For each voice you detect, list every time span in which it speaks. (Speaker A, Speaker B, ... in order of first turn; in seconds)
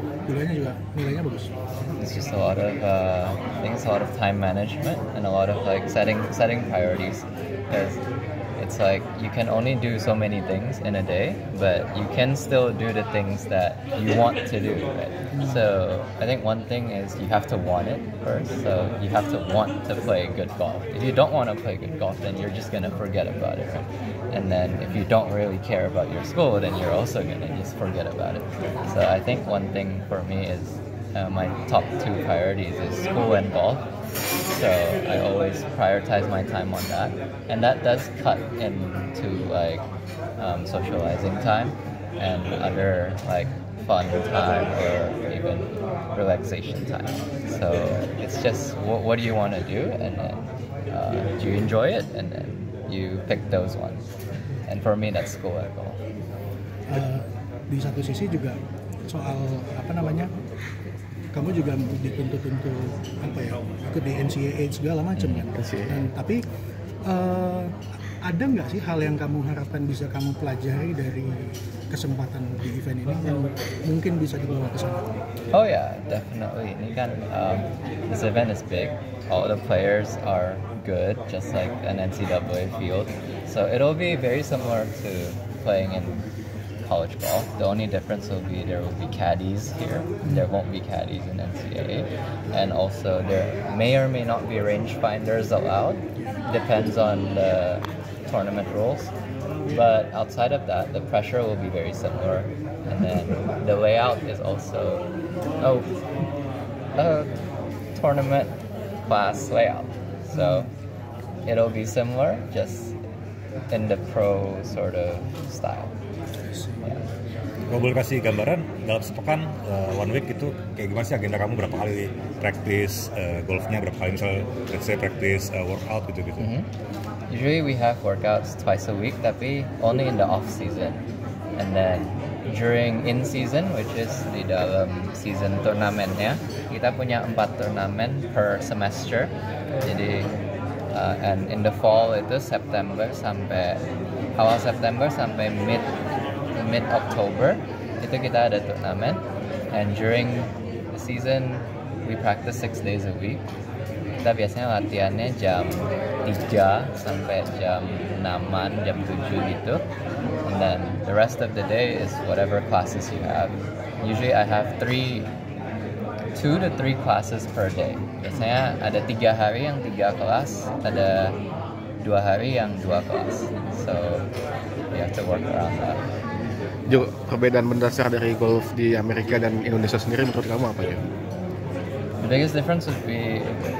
Speaker A: 0.2-1.5, 15.3-15.6, 56.9-58.6, 59.1-60.3, 61.3-66.4, 67.0-75.1
Speaker B: 2.0-8.0, 8.6-33.8, 34.5-39.8, 40.4-54.0, 54.7-56.0, 75.5-86.2, 86.8-99.1, 99.7-105.0, 105.6-105.9, 107.0-107.3, 108.0-108.5, 109.1-110.7, 111.5-112.9, 113.7-115.9, 126.4-126.7, 127.3-131.0, 131.6-140.3, 140.9-143.8, 144.4-145.9, 146.5-153.4, 154.2-159.8, 160.4-165.3, 166.3-171.3, 172.0-174.3, 174.9-176.0, 182.2-183.6
Speaker C: 65.3-66.0, 176.8-181.0
Speaker D: 117.7-126.5